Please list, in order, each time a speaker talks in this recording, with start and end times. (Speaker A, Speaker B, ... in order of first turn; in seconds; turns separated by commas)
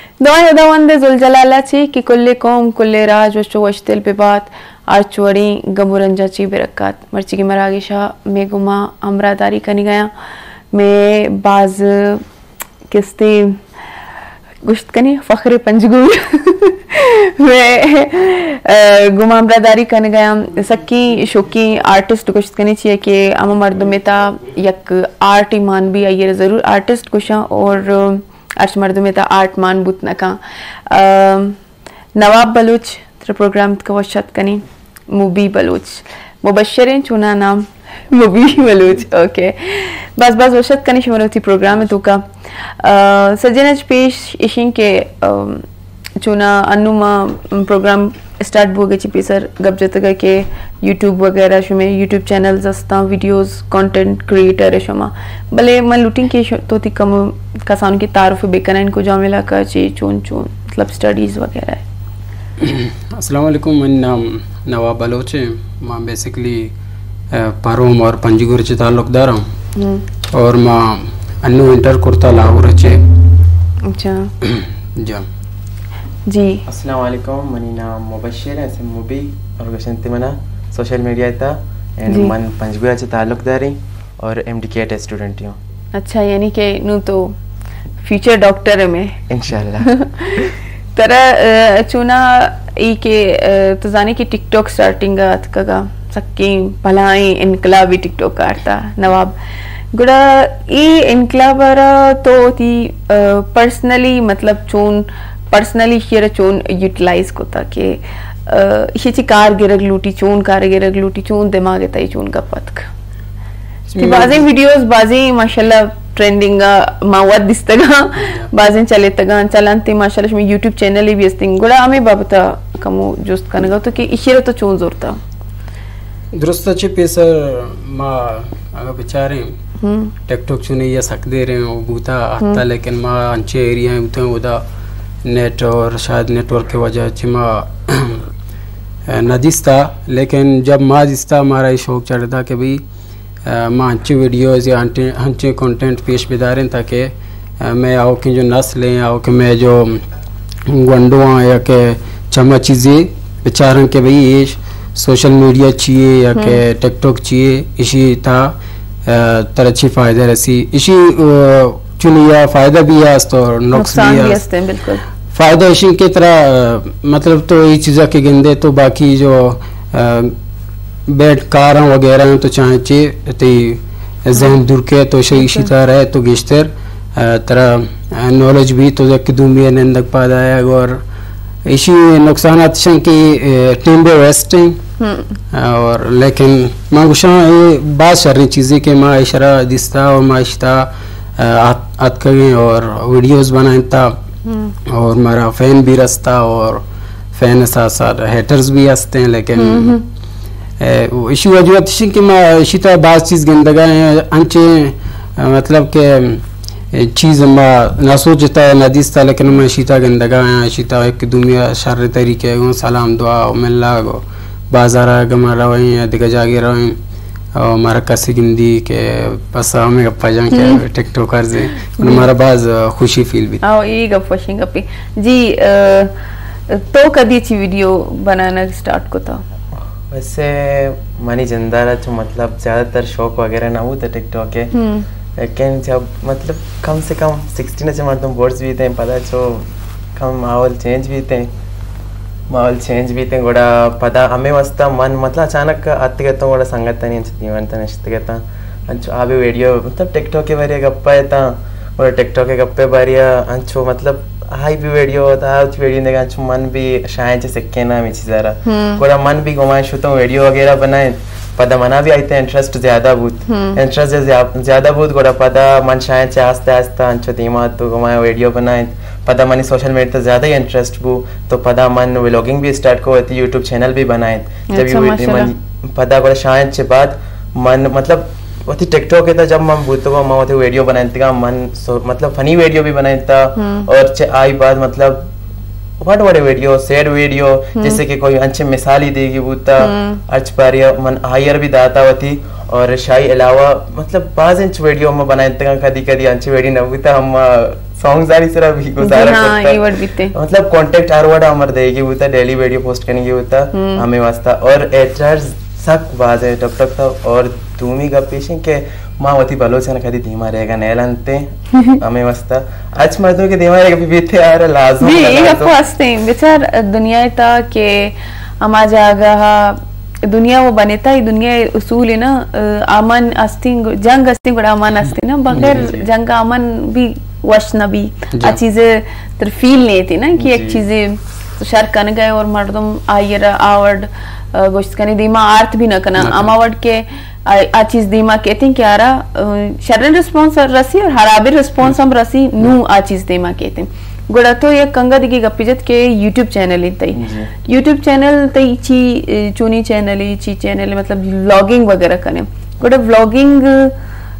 Speaker A: 0.2-10.1, Speaker A: 10.7-12.2, Speaker A: 12.9-13.6, Speaker A: 14.6-31.6, Speaker A: 32.2-45.7, Speaker A: 46.2-61.8, Speaker B: 62.6-66.7, Speaker B: 67.3-69.5, Speaker A: 69.8-70.0, Speaker B: 70.3-73.0, Speaker A: 73.8-74.3, Speaker B: 74.4-75.3, Speaker A: 76.3-76.7, Speaker C: 76.7-85.6, Speaker A: 82.1-82.3, Speaker A: 85.9-87.4, Speaker A: 88.0-89.2, Speaker C: 89.3-89.9, Speaker A: 89.8-99.4, Speaker A: 99.9-112.9, Speaker B: 113.9-114.4, Speaker A: 114.0-125.2, Speaker B: 126.3-129.5, Speaker A: 129.8-130.1, Speaker B: 130.3-134.6, Speaker B: 135.2-138.3, Speaker B: 139.1-142.8, Speaker B: 143.4-150.0, Speaker B: 150.7-158.5, Speaker B: 159.1-164.4, Speaker A: 163.7-165.0, Speaker B: 165.3-170.3, Speaker B: 171.1-181.0, Speaker A: 175.3-175.7, Speaker B: 181.7-184.8, Speaker A: 185.0-185.4, Speaker B: 185.5-194.2, Speaker A: 194.5-194.7, Speaker B: 194.8-196.8, Speaker B: 197.3-200.0, Speaker A: 199.6-200.0, Speaker B: 200.8-217.0, Speaker B: 217.5-223.6, Speaker A: 220.5-220.8, Speaker A: 222.0-222.2, Speaker A: 223.6-226.1, Speaker A: 226.7-229.4, Speaker C: 230.1-234.7, Speaker A: 234.7-235.1, Speaker C: 235.3-241.5, Speaker C: 242.5-285.3, Speaker A: 258.6-259.0, Speaker A: 263.5-263.8, Speaker A: 274.7-275.5, Speaker A: 283.6-283.9, Speaker C: 286.0-315.8, Speaker A: 287.8-288.0, Speaker A: 289.8-290.2, Speaker A: 299.0-300.3, Speaker A: 303.7-304.1, Speaker A: 311.7-312.0, Speaker A: 315.0-354.0, Speaker B: 325.5-325.9, Speaker C: 325.6-326.0, Speaker C: 330.4-330.8, Speaker B: 336.2-336.5, Speaker C: 347.2-347.5